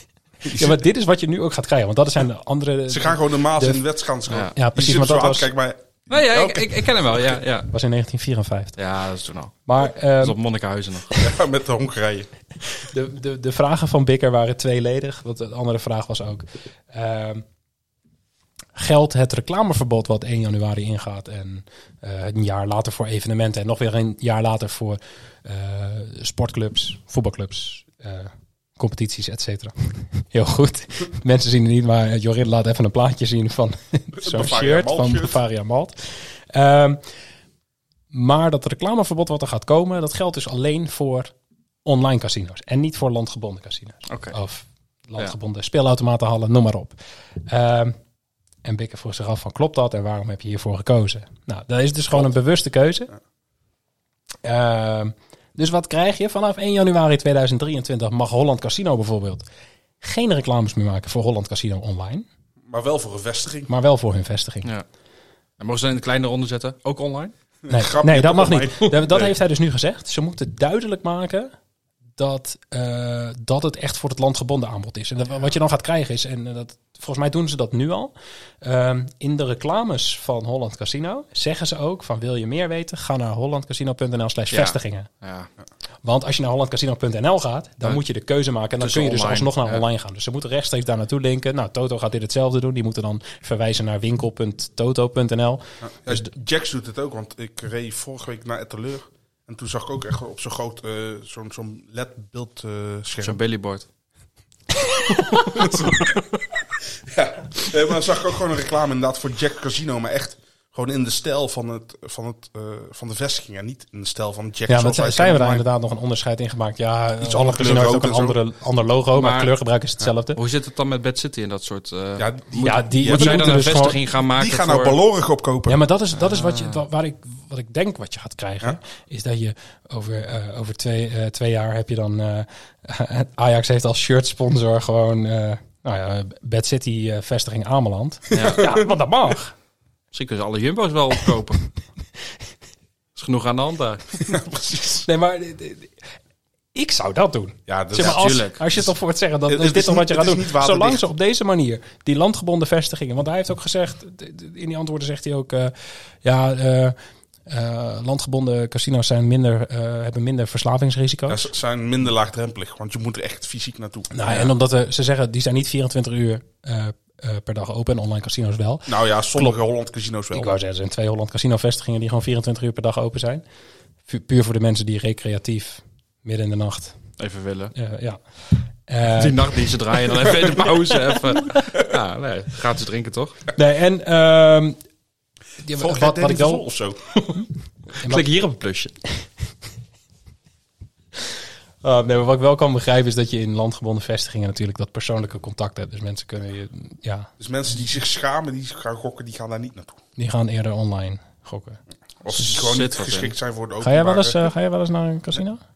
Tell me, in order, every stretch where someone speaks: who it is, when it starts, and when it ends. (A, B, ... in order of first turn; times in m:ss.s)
0:00.4-0:00.8 A
0:00.5-0:03.8 B
0:02.9-0:07.4 A
0:04.3-0:04.5 C
0:04.5-0:05.5 B
0:06.1-0:07.7 C
0:07.7-0:08.8 B
0:08.8-0:09.6 C
0:09.6-0:10.4 B
0:10.2-0:11.2 C
0:11.2-0:12.3 A
0:12.7-0:17.4 B
0:18.8-0:37.0 B
0:34.1-0:35.4 A
0:38.1-0:41.3 B
0:41.8-0:48.0 B
0:44.1-0:44.3 C
0:48.6-0:53.1 B
0:54.4-0:59.4 B
1:00.0-1:02.2 B
1:02.7-1:03.7 A
1:03.7-1:04.7 B
1:05.6-1:07.3 C
1:07.6-1:09.3 A
1:07.7-1:11.5 B
1:12.2-1:25.1 B
1:24.5-1:25.5 C
1:26.0-1:36.3 B
1:28.8-1:29.8 C
1:35.8-1:43.4 A
1:43.2-1:43.8 C
1:45.4-1:46.1 C
1:45.6-1:46.0 A
1:47.1-1:55.7 A
1:54.7-2:00.4 B
1:57.2-1:58.4 A
1:59.1-1:59.5 C
2:00.3-2:05.0 C
2:02.2-2:03.8 A
2:02.6-2:04.0 B
2:04.3-2:05.8 A
2:05.7-2:19.5 B
2:06.2-2:06.8 C
2:18.3-2:18.8 A
2:18.3-2:18.6 C
2:20.1-2:21.6 C
2:23.2-2:24.1 C
2:24.2-2:25.1 A
2:25.0-2:25.9 B
2:26.7-2:37.0 B
2:27.7-2:28.3 A
2:28.0-2:28.6 C
2:29.5-2:31.0 A
2:37.5-2:41.4 B
2:41.3-2:44.4 A
2:44.1-2:49.6 B
2:48.9-2:50.5 A
2:50.3-2:53.4 B
2:54.0-2:57.0 B
2:57.2-2:57.7 C
2:57.8-2:59.5 B
2:59.2-3:03.4 C
3:03.5-3:04.8 B
3:05.6-3:06.6 B
3:05.7-3:07.0 A
3:08.0-3:08.3 B
3:08.0-3:08.9 C
3:11.8-3:17.3 B
3:17.4-3:20.0 A
3:20.2-3:21.8 B
3:22.2-3:24.5 A
3:22.4-3:23.3 C
3:23.8-3:25.6 B